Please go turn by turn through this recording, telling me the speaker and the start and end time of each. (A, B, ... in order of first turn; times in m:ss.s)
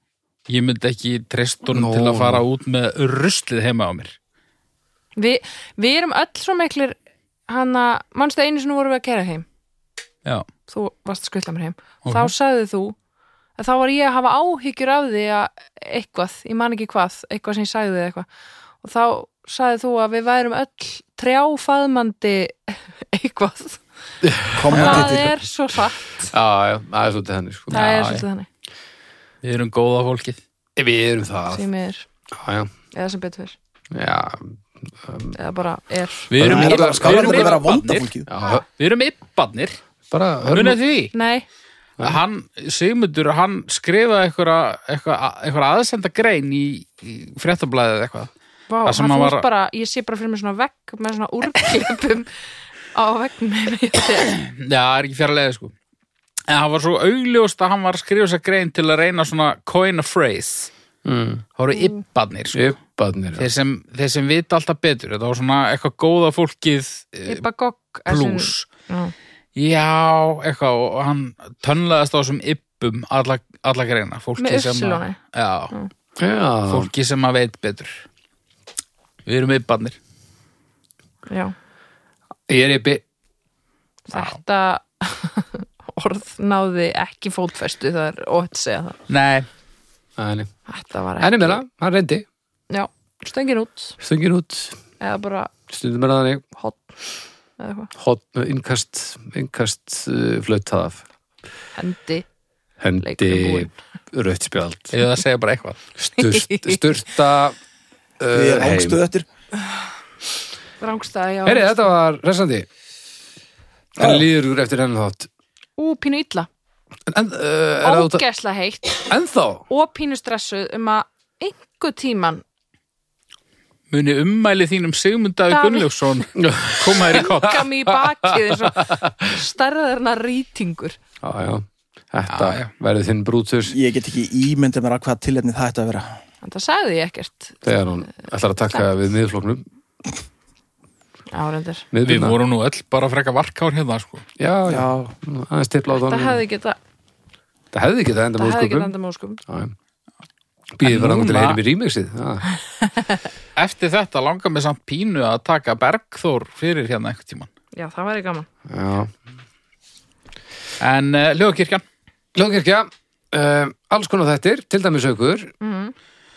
0:00.5-0:04.2 A
0:01.7-0:02.4 B
0:05.2-0:07.0 C
0:07.5-0:09.5 C
0:10.7-0:13.0 C
0:12.0-0:12.3 A
0:13.6-0:18.3 C
0:18.8-0:23.8 C
0:24.2-0:25.0 B
0:24.5-0:25.3 D
0:24.7-0:26.3 C
0:24.7-0:25.1 A
0:26.3-0:27.8 B
0:27.7-0:28.5 C
0:27.7-0:28.2 A
0:29.4-0:30.4 A
0:30.8-0:31.6 B
0:31.5-0:32.0 C
0:32.3-0:32.7 B
0:32.9-0:33.6 C
0:33.9-0:35.4 B
0:35.3-0:36.3 C
0:36.3-0:38.1 A
0:36.4-0:37.6 B
0:36.4-0:38.3 D
0:38.3-0:38.6 B
0:38.6-0:39.8 A
0:40.1-0:40.8 B
0:40.5-0:41.1 A
0:41.1-0:41.5 C
0:42.0-0:48.3 A
0:48.7-0:52.3 C
0:48.9-0:49.5 A
0:52.9-0:54.4 C
0:54.3-0:55.7 A
0:56.5-1:00.7 A
1:01.0-1:01.4 B
1:01.6-1:02.7 A
1:02.5-1:03.5 B
1:03.4-1:07.4 A
1:07.3-1:09.1 C
1:08.1-1:08.7 A
1:09.6-1:15.7 A
1:14.4-1:15.2 C
1:16.2-1:16.9 B
1:16.7-1:18.0 A
1:19.3-1:20.0 A
1:21.3-1:21.6 C
1:22.5-1:23.0 B
1:24.1-1:29.0 C
1:24.1-1:24.4 A
1:29.1-1:29.5 A
1:30.2-1:30.5 B
1:30.7-1:31.6 C
1:31.2-1:32.3 B
1:32.7-1:34.0 C
1:34.0-1:34.8 B
1:35.0-1:35.5 C
1:35.7-1:36.4 B
1:36.6-1:36.8 C
1:37.6-1:37.9 C
1:38.0-1:41.0 B
1:41.8-1:42.3 C
1:42.8-1:45.0 B
1:43.0-1:43.7 C
1:44.9-1:45.8 A
1:46.0-1:47.6 B
1:46.2-1:46.8 C
1:48.2-1:49.0 B
1:48.3-1:49.3 D
1:50.8-1:51.9 C
1:51.5-1:52.7 B
1:54.0-1:55.3 B
1:54.0-1:54.2 D
1:55.8-1:56.5 C
1:57.1-1:58.2 B
1:57.8-1:59.0 C
1:59.1-1:59.7 B
1:59.7-2:02.4 C
2:03.9-2:07.7 A
2:05.5-2:05.9 C
2:06.4-2:07.3 B
2:06.9-2:11.0 C
2:08.3-2:09.3 B
2:11.2-2:13.8 B
2:12.3-2:12.7 A
2:13.7-2:16.2 D
2:16.4-2:17.6 C
2:17.6-2:19.6 B
2:21.3-2:21.9 C
2:21.9-2:22.4 B
2:22.0-2:24.3 A
2:24.4-2:26.4 B
2:24.7-2:25.0 D
2:25.9-2:26.8 C
2:27.7-2:28.9 B
2:28.4-2:29.4 C
2:29.5-2:29.7 B
2:30.7-2:32.5 B
2:30.8-2:31.6 A
2:33.6-2:37.5 A
2:37.7-2:38.5 C
2:38.7-2:39.1 B
2:40.8-2:41.8 A
2:42.4-2:45.5 B
2:45.6-2:45.9 C